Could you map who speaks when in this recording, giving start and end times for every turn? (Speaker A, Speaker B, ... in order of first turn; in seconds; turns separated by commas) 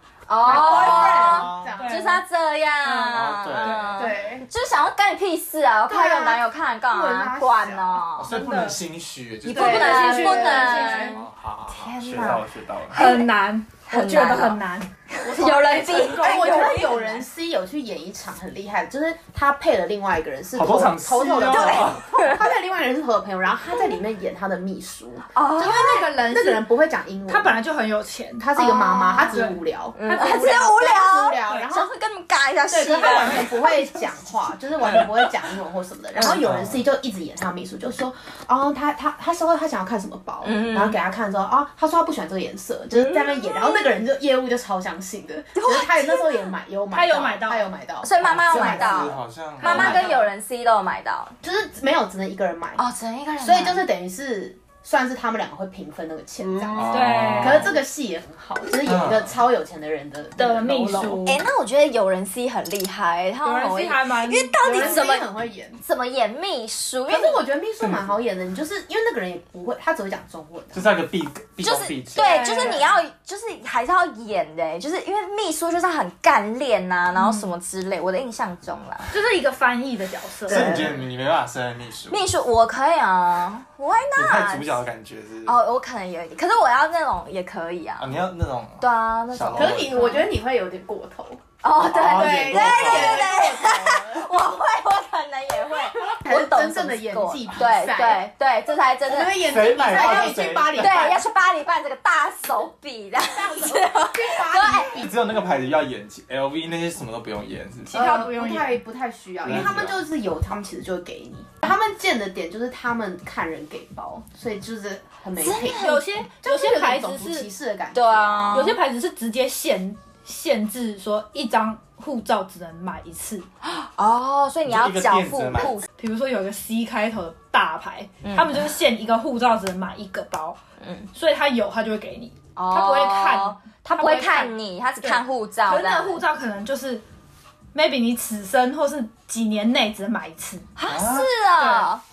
Speaker A: 0.3-8.3, Speaker B: 0.4-2.1, Speaker C: 0.5-2.2, Speaker D: 0.6-1.8, Speaker C: 2.8-4.0, Speaker D: 3.1-4.1, Speaker B: 3.9-4.5, Speaker B: 5.9-8.5, Speaker D: 8.2-10.4, Speaker C: 8.2-8.8, Speaker C: 9.4-11.2, Speaker B: 9.5-11.1, Speaker A: 9.5-13.3, Speaker D: 11.0-13.0, Speaker C: 12.9-17.1, Speaker A: 13.9-17.2, Speaker B: 15.3-27.6, Speaker D: 20.5-22.1, Speaker A: 21.4-22.4, Speaker A: 25.3-25.8, Speaker C: 25.6-26.7, Speaker C: 27.3-30.6, Speaker B: 28.4-31.9, Speaker A: 28.5-33.9, Speaker C: 32.7-33.9, Speaker B: 32.8-50.0, Speaker A: 36.1-36.6, Speaker D: 36.3-36.8, Speaker A: 40.4-41.0, Speaker A: 42.9-43.9, Speaker A: 45.5-46.5, Speaker C: 46.9-47.7, Speaker A: 48.0-51.3, Speaker D: 48.2-50.1, Speaker C: 49.6-50.2, Speaker B: 51.4-52.8, Speaker A: 52.8-53.8, Speaker B: 53.4-61.2, Speaker A: 56.5-57.0, Speaker D: 56.7-57.7, Speaker C: 56.9-57.7, Speaker D: 58.8-59.3, Speaker C: 60.4-61.4, Speaker A: 61.2-65.3, Speaker C: 63.4-65.0, Speaker B: 64.6-65.8, Speaker A: 65.8-67.4, Speaker B: 67.1-70.9, Speaker D: 67.8-68.1, Speaker D: 70.7-72.4, Speaker A: 71.6-79.1, Speaker C: 72.2-72.8, Speaker C: 77.1-77.5, Speaker C: 79.1-80.8, Speaker D: 80.5-82.3, Speaker A: 80.5-81.0, Speaker A: 82.1-84.8, Speaker D: 84.1-85.6, Speaker A: 85.4-88.2, Speaker D: 88.0-90.2, Speaker A: 88.8-90.3, Speaker B: 89.5-94.3, Speaker A: 91.6-105.0, Speaker D: 91.8-93.3, Speaker B: 95.9-98.3, Speaker B: 99.0-101.2, Speaker D: 99.4-101.1, Speaker B: 103.2-105.4, Speaker D: 105.0-108.1, Speaker C: 107.8-108.8, Speaker B: 107.9-118.7, Speaker D: 109.4-110.0, Speaker A: 115.4-116.0, Speaker C: 115.4-117.5, Speaker A: 117.9-118.8, Speaker C: 118.5-123.5, Speaker A: 123.6-125.8, Speaker D: 124.6-125.8, Speaker C: 126.0-130.6, Speaker A: 128.2-128.6, Speaker A: 130.8-131.1, Speaker C: 131.1-137.0, Speaker A: 132.6-136.2, Speaker C: 137.7-140.7, Speaker A: 140.8-142.0, Speaker D: 140.9-141.3, Speaker C: 141.6-141.9